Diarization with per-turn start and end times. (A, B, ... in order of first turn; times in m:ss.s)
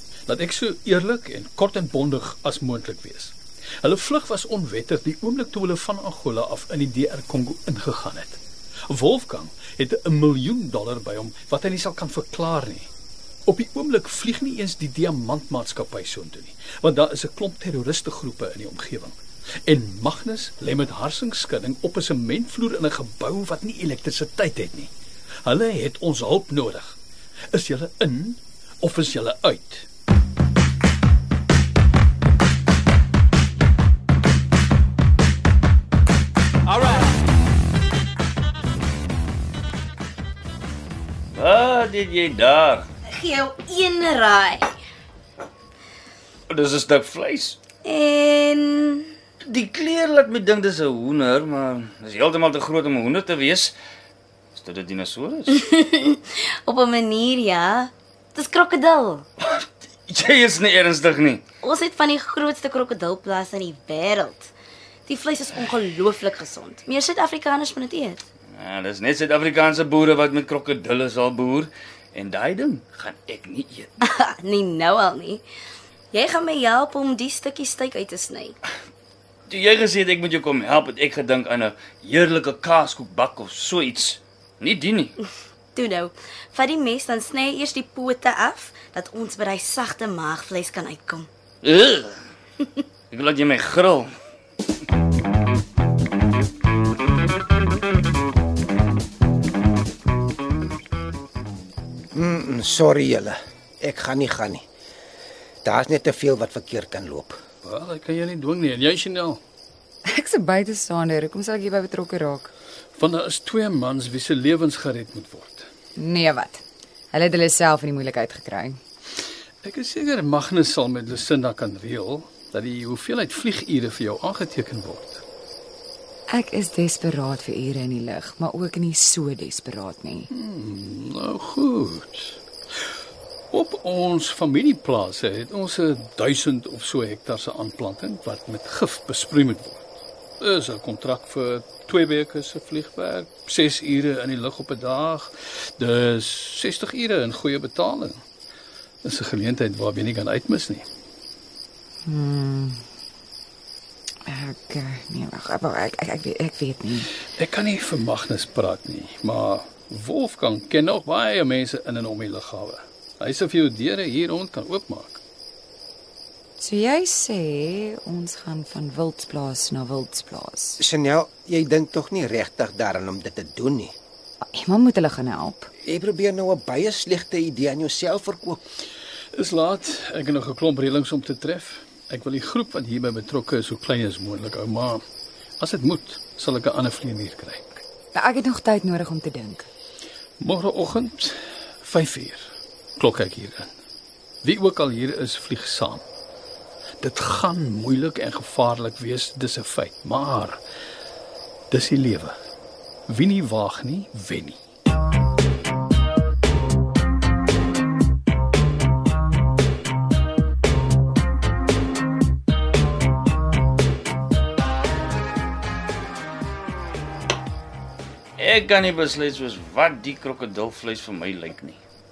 0:00.3-0:12.9 A
0:13.5-0:24.9 A
0:25.4-0:27.0 A
0:27.5-0:29.9 A
0:41.4-0:42.8 B
0:43.1-0:44.7 C
0:46.5-0:47.6 B
0:47.8-0:49.1 C
0:49.4-0:53.7 B
0:54.6-0:55.6 B
0:55.5-0:59.2 C
0:59.5-1:01.4 B
1:01.6-1:04.5 C
1:05.1-1:08.2 C
1:08.6-1:13.9 B
1:14.0-1:15.4 C
1:16.1-1:18.6 C
1:19.5-1:25.1 B
1:25.8-1:31.3 C
1:31.6-1:32.2 B
1:33.1-1:34.1 B
1:42.1-1:44.6 D
1:45.6-1:47.4 D
1:47.6-1:49.4 A
1:50.1-1:52.5 E
1:53.0-1:55.7 A
1:56.0-1:58.8 E
1:59.6-2:05.2 A
2:06.3-2:10.3 E
2:10.3-2:12.4 A
2:13.5-2:19.8 A
2:20.4-2:28.2 A
2:29.0-2:30.9 A
2:32.0-2:32.8 E
2:34.3-2:37.1 E
2:37.4-2:45.2 A
2:46.6-2:50.8 E
2:50.8-2:53.9 D
2:54.5-2:55.7 E
2:55.8-2:58.6 D
2:59.3-3:05.0 A
3:05.6-3:07.7 A
3:08.1-3:09.7 E
3:10.4-3:13.7 A
3:14.4-3:16.0 A
3:17.0-3:20.6 A
3:21.7-3:22.3 A
3:23.1-3:24.6 A
3:38.4-3:41.8 B